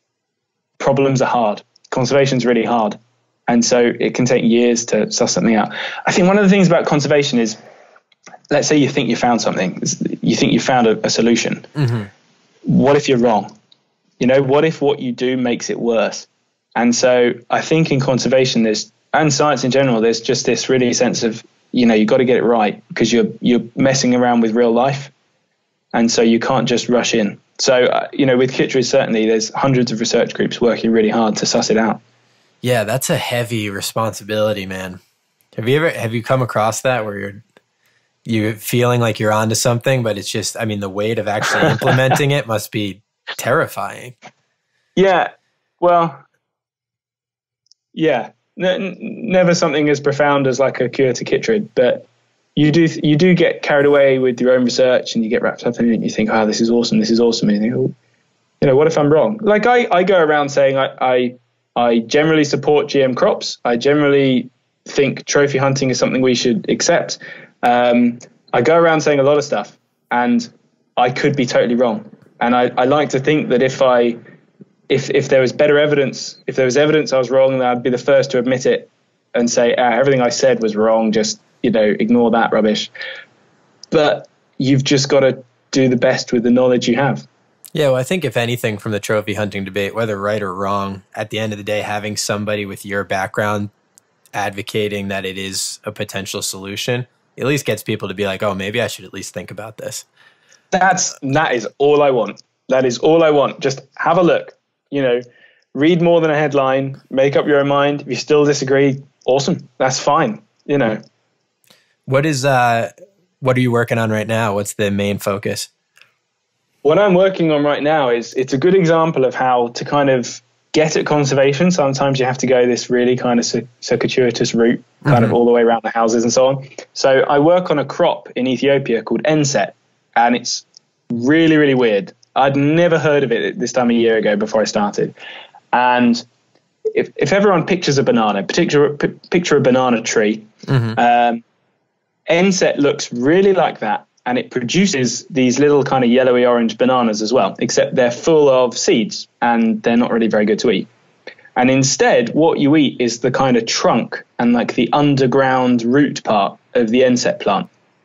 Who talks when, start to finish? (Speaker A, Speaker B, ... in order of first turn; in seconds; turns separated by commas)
Speaker A: 0.8-7.6, Speaker A: 8.5-11.7, Speaker B: 11.8-12.1, Speaker A: 12.7-13.5, Speaker A: 14.2-25.1, Speaker A: 25.9-32.0, Speaker B: 32.6-35.0, Speaker B: 35.5-37.4, Speaker B: 38.2-44.1, Speaker A: 41.5-42.2, Speaker A: 45.0-46.2, Speaker A: 47.9-57.9, Speaker A: 58.6-74.2, Speaker A: 74.9-82.9, Speaker A: 83.9-87.2, Speaker B: 87.7-93.7, Speaker B: 94.3-100.0, Speaker A: 100.7-105.2, Speaker A: 105.7-111.0, Speaker B: 112.1-115.7, Speaker A: 116.8-135.1, Speaker B: 125.1-125.3, Speaker A: 135.7-136.2, Speaker A: 136.9-141.4, Speaker B: 140.7-141.0, Speaker A: 142.3-150.9, Speaker A: 151.6-157.7